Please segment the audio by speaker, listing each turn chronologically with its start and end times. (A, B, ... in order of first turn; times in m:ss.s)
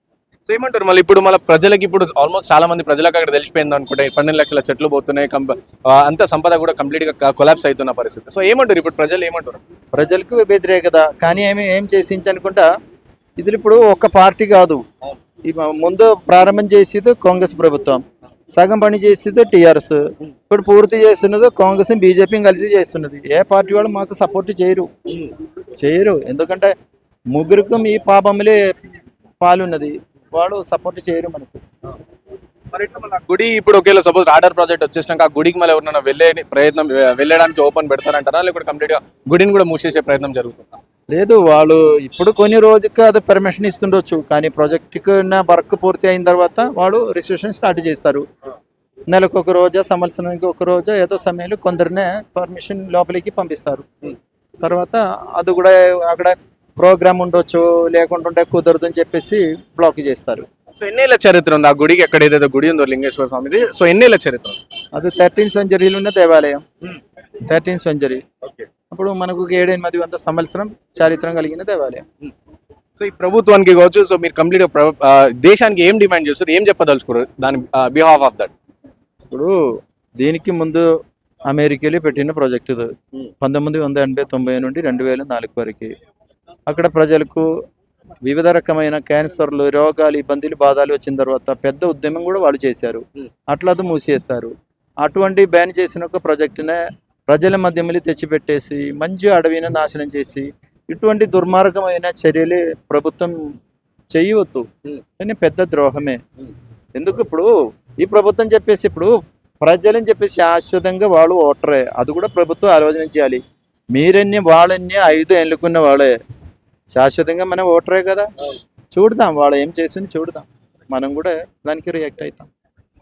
0:00.5-0:09.6 A
0:09.9-0:12.7 B
0:13.4-0:14.8 B
0:15.5-0:18.0 B
0:18.6-0:24.9 B
0:25.8-0:26.7 B
0:27.3-0:28.7 B
0:29.4-0:31.6 B
0:32.7-0:40.8 A
0:41.1-0:48.2 B
0:49.1-0:53.9 B
0:54.6-1:00.5 B
1:00.8-1:04.6 A
1:05.0-1:06.6 B
1:07.5-1:08.2 B
1:08.9-1:12.0 B
1:13.0-1:18.5 A
1:19.3-1:19.6 B
1:20.2-1:20.9 B
1:21.5-1:22.9 B
1:23.4-1:25.9 B
1:26.7-1:27.5 B
1:28.3-1:43.4 B
1:44.1-1:44.7 B
1:45.2-1:46.2 B
1:47.0-1:53.4 B
1:53.9-1:56.2 B
1:56.9-1:58.3 B
1:58.9-2:02.5 B